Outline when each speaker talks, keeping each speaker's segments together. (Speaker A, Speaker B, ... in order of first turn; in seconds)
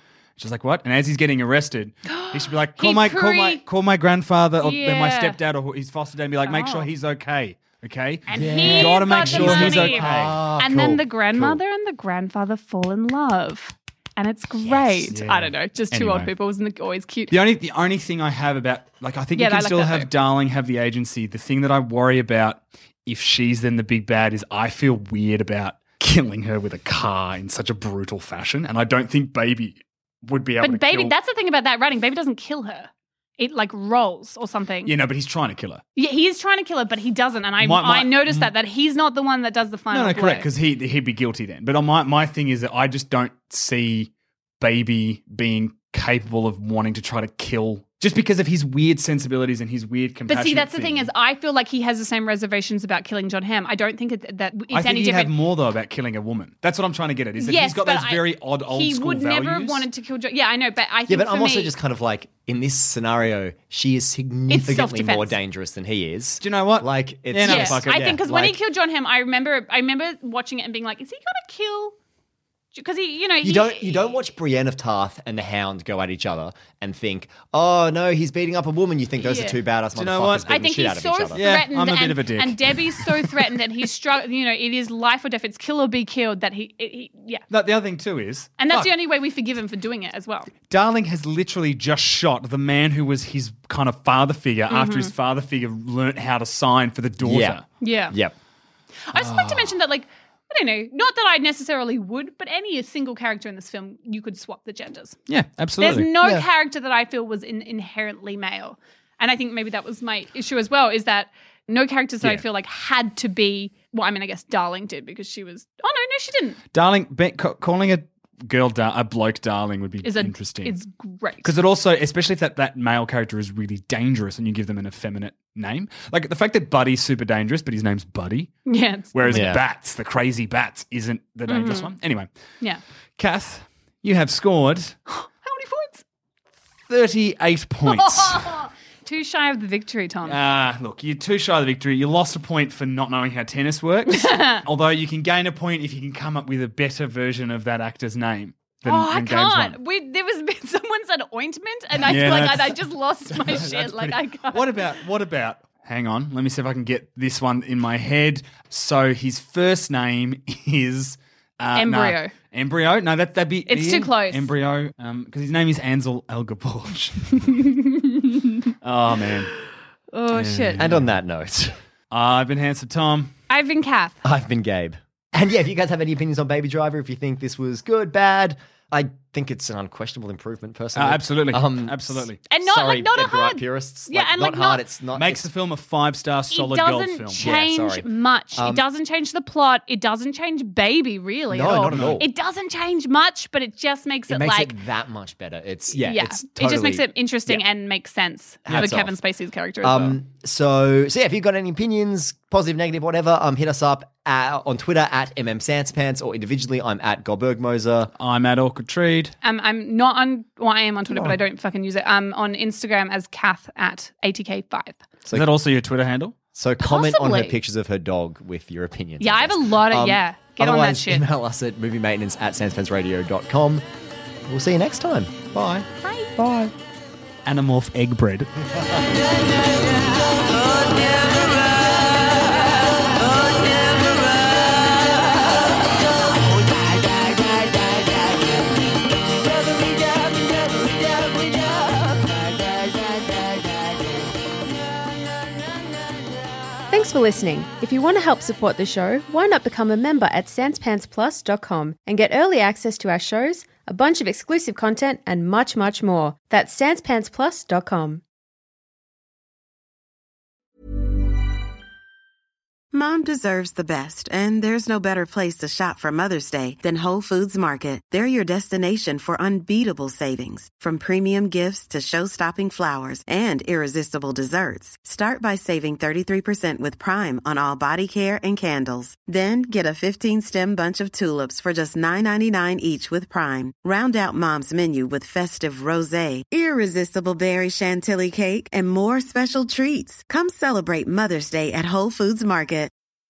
Speaker A: 0.4-10.8, 14.7-16.3, 17.3-31.1, 34.8-35.8, 37.6-38.5, 39.9-51.1, 54.7-59.9, 66.4-68.2, 79.9-80.6, 81.3-83.3, 87.5-88.9, 90.7-97.6, 99.1-99.8, 105.3-106.1, 116.7-120.8, 121.4-128.5, 129.1-132.3, 133.2-135.0, 136.9-138.4, 140.2-149.8, 152.0-167.6, 168.8-169.5, 170.3-171.1, 172.1-173.3, 180.9-182.4, 185.1-187.4, 191.9-192.2, 208.2-209.3, 215.3-216.3, 225.5-225.8, 227.4-228.5
Speaker B: 2.1-3.6, 4.6-5.4, 6.4-6.9, 8.3-17.3, 19.4-20.1, 30.6-34.9, 36.0-40.5, 50.3-55.3, 57.4-61.7, 64.5-65.3, 67.4-71.9, 72.7-74.2, 79.2-79.6, 80.5-87.4, 88.6-90.5, 94.7-95.1, 97.8-98.2, 99.1-105.2, 105.8-116.6, 120.0-121.5, 128.7-129.4, 131.5-131.9, 135.1-136.0, 137.8-140.4, 144.1-144.6, 148.8-154.9, 161.8-162.3, 163.7-164.5, 167.5-168.7, 170.1-170.8, 173.5-174.2, 182.5-184.8, 186.5-194.7, 195.9-200.2, 209.4-215.0, 216.8-217.6, 219.2-221.2, 226.0-226.3
Speaker C: 8.3-11.5, 61.1-68.6, 73.4-81.4, 97.2-98.3, 129.3-129.6, 170.8-171.8, 174.2-185.4, 187.3-188.8, 191.5-192.2, 194.3-197.6, 198.7-199.1, 199.8-208.1, 216.5-223.8, 224.5-225.5, 226.4-226.7
Speaker D: 246.9-258.2
Speaker E: 262.9-292.9